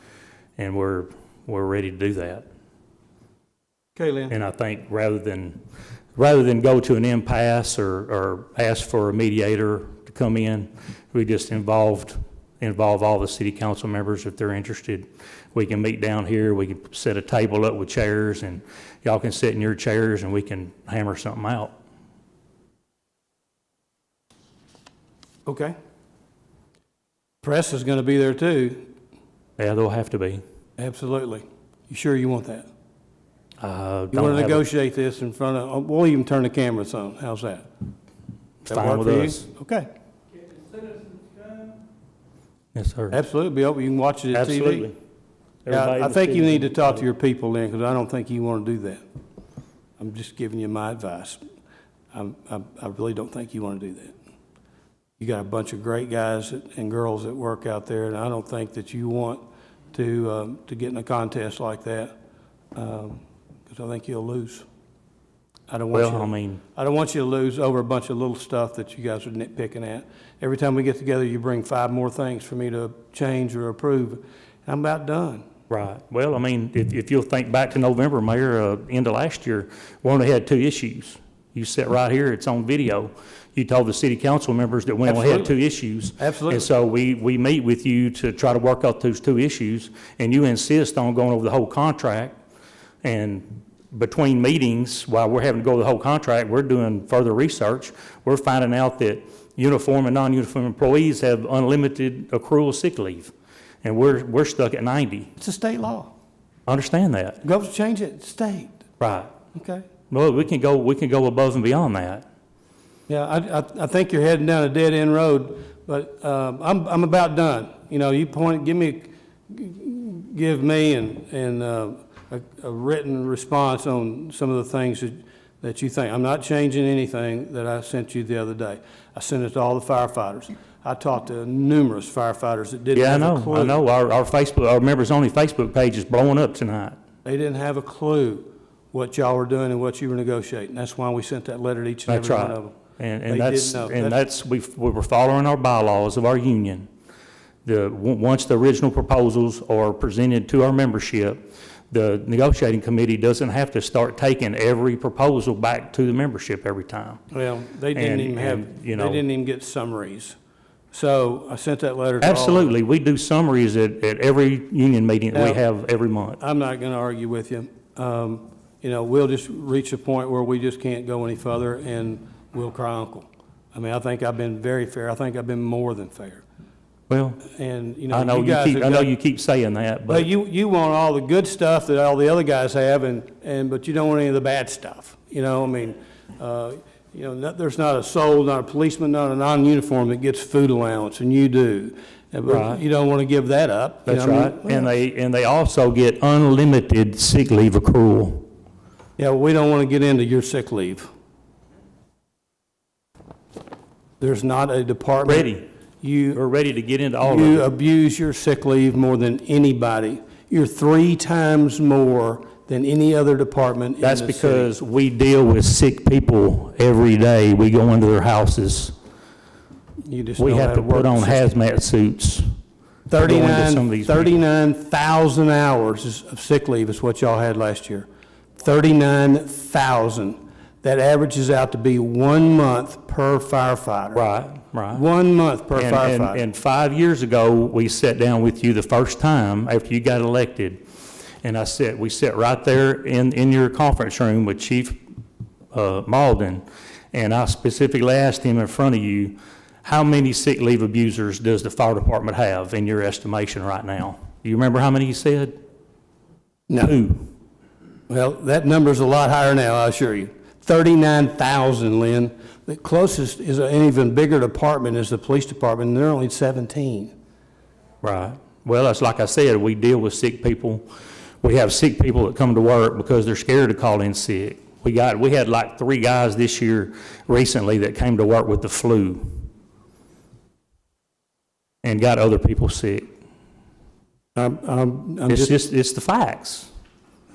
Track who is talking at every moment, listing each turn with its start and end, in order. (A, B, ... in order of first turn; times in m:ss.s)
0:00.6-0:02.4 A
0:04.0-0:04.3 B
0:04.3-0:05.6 A
0:06.2-0:21.7 A
0:25.4-0:25.7 B
0:27.4-0:28.8 B
0:29.6-0:30.4 A
0:30.8-0:32.7 B
0:33.6-0:34.6 A
0:34.1-0:37.6 B
0:38.6-0:39.4 A
0:38.7-0:39.9 B
0:42.7-0:43.2 A
0:43.1-0:44.9 B
0:44.3-0:44.9 A
0:45.6-0:47.0 A
0:45.7-0:49.0 B
0:50.0-0:51.4 B
0:52.1-0:54.1 B
0:55.2-0:59.4 B
0:59.9-1:02.1 B
1:02.7-1:04.6 B
1:05.7-1:15.4 B
1:05.9-1:06.6 A
1:15.7-1:32.3 A
1:25.0-1:25.5 B
1:26.2-1:26.7 B
1:33.0-1:43.3 A
1:43.8-1:45.3 A
1:45.4-1:46.1 B
1:46.7-1:47.4 A
1:47.4-1:48.8 B
1:49.0-1:49.3 A
1:49.5-1:49.8 B
1:50.1-1:52.2 A
1:53.1-2:13.8 B
2:12.9-2:17.0 A
2:17.2-2:22.8 B
2:22.1-2:26.9 A
2:23.3-2:24.2 B
2:27.6-2:37.2 A
2:37.3-2:40.4 B
2:37.9-2:39.2 A
2:40.9-2:42.8 B
2:42.2-2:46.4 A
2:45.3-2:45.6 B
2:46.4-2:56.4 B
2:57.1-2:57.5 A
2:57.5-2:59.1 B
2:58.1-3:00.3 A
3:00.1-3:14.9 B
3:12.5-3:12.8 A
3:14.0-3:18.4 A
3:19.2-3:21.1 B
3:24.2-3:26.4 B
3:25.2-3:25.6 A
3:26.3-3:27.7 A
3:27.2-3:34.7 B
3:34.0-3:38.9 A
3:40.0-3:41.4 B
3:40.4-3:42.4 A
3:43.1-3:48.0 B
3:43.2-3:44.3 A
3:48.6-3:54.2 B
3:54.1-3:55.0 A
3:54.9-3:56.4 B
3:55.7-4:00.8 A
4:01.4-4:05.0 A
4:05.7-4:15.5 A
4:16.7-4:16.9 B
4:16.8-4:17.3 A
4:18.1-4:27.1 B
4:28.0-4:30.8 A
4:31.4-4:39.4 A
4:41.8-4:43.0 A
4:44.4-4:45.6 B
4:45.3-4:46.7 A